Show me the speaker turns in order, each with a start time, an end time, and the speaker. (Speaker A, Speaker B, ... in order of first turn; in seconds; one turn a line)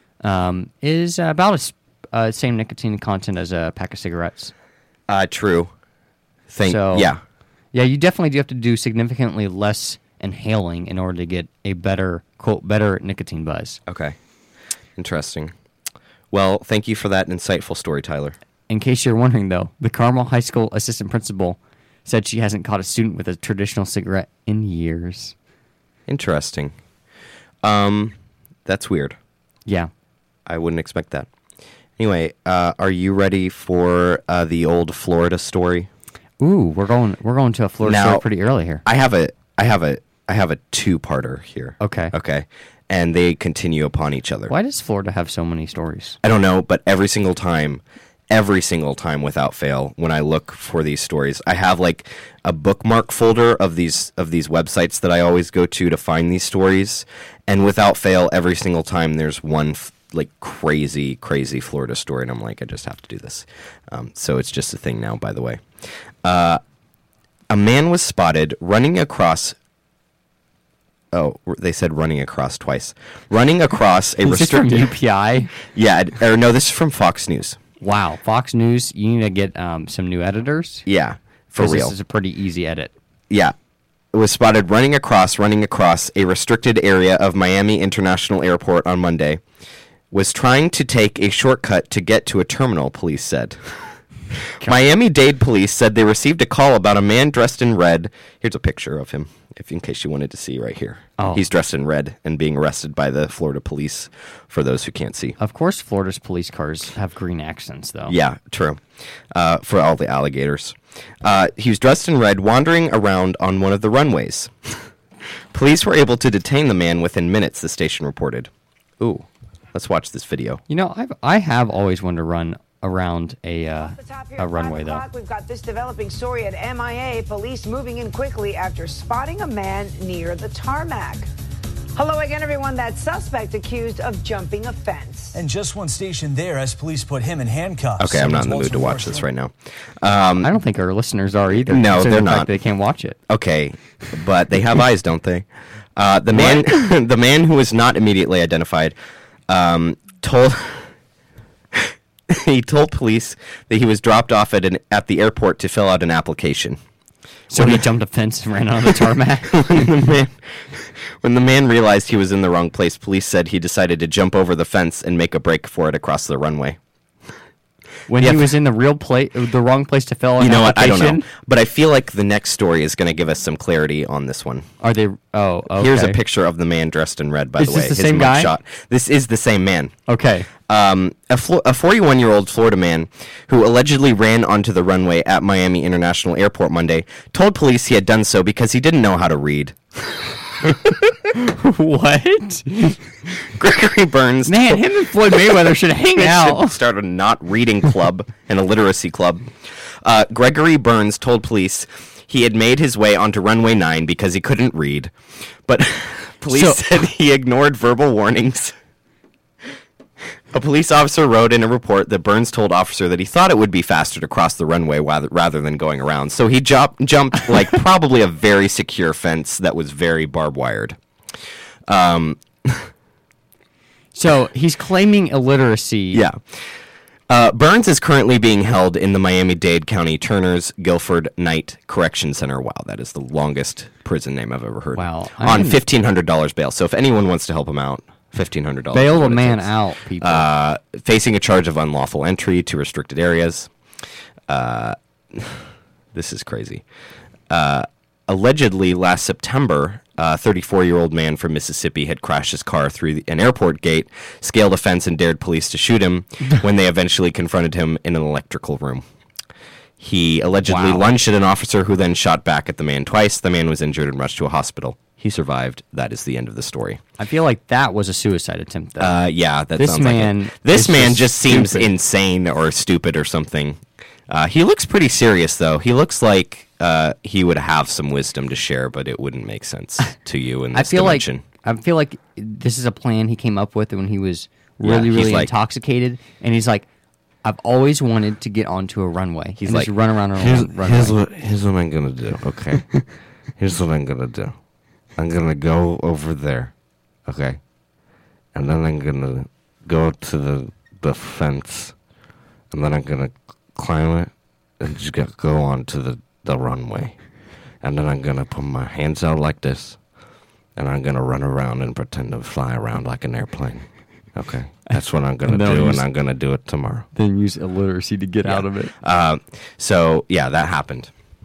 Speaker A: 0.2-4.5
Speaker B: 5.1-5.7
Speaker B: 6.5-7.2
Speaker A: 6.6-7.1
Speaker A: 7.7-13.8
Speaker B: 13.9-14.2
Speaker B: 15.0-15.5
Speaker B: 16.3-18.4
Speaker A: 18.7-25.3
Speaker B: 26.1-26.7
Speaker B: 27.6-28.1
Speaker B: 28.6-29.2
Speaker B: 30.4-31.3
Speaker B: 32.0-35.9
Speaker A: 36.4-38.8
Speaker B: 37.8-38.2
Speaker B: 38.9-44.5
Speaker A: 41.8-42.1
Speaker A: 44.5-46.2
Speaker B: 46.2-65.6
Speaker B: 66.2-66.6
Speaker B: 67.5-69.6
Speaker B: 71.1-74.9
Speaker A: 74.2-75.5
Speaker B: 75.7-77.6
Speaker A: 77.8-80.9
Speaker B: 80.9-81.9
Speaker A: 81.6-82.9
Speaker B: 84.1-89.4
Speaker B: 90.1-93.9
Speaker B: 94.6-105.4
Speaker A: 101.2-101.4
Speaker A: 105.4-108.1
Speaker B: 108.1-108.8
Speaker B: 109.3-114.8
Speaker B: 115.5-120.6
Speaker A: 120.7-125.0
Speaker C: 123.8-131.3
Speaker C: 131.9-135.4
Speaker D: 135.3-139.3
Speaker B: 138.0-140.5
Speaker A: 140.4-143.2
Speaker B: 141.6-142.5
Speaker B: 143.3-148.9
Speaker A: 146.3-146.6
Speaker B: 149.5-150.9
Speaker B: 151.8-156.8
Speaker A: 157.5-159.6
Speaker B: 157.5-157.8
Speaker B: 159.5-166.8
Speaker A: 168.1-171.2
Speaker B: 168.2-168.5
Speaker B: 170.4-174.7
Speaker A: 174.8-176.2
Speaker B: 175.7-179.9
Speaker A: 177.6-178.5
Speaker A: 180.1-180.5
Speaker B: 180.7-190.3
Speaker A: 191.3-193.0
Speaker B: 193.6-199.5
Speaker A: 194.4-196.8
Speaker B: 200.0-205.1
Speaker B: 205.7-208.7
Speaker A: 206.5-207.0
Speaker B: 210.5-221.0
Speaker B: 221.9-222.9
Speaker A: 224.1-226.2
Speaker B: 226.1-226.4
Speaker B: 227.3-243.7
Speaker A: 234.9-235.8
Speaker A: 238.9-240.5
Speaker B: 244.5-246.8
Speaker B: 247.5-259.0
Speaker B: 260.0-267.0
Speaker A: 260.6-261.1
Speaker A: 267.2-269.2
Speaker B: 269.0-281.4
Speaker A: 269.8-271.9
Speaker A: 280.7-286.9
Speaker B: 284.8-285.5
Speaker A: 287.4-291.2
Speaker B: 289.6-289.9
Speaker E: 290.4-293.1
Speaker E: 293.6-294.6
Speaker E: 295.2-296.7
Speaker E: 297.2-297.6
Speaker E: 298.5-301.9
Speaker E: 302.7-307.1
Speaker E: 307.8-310.0
Speaker E: 310.8-317.1
Speaker A: 314.9-316.0
Speaker A: 317.1-318.9
Speaker B: 318.4-321.1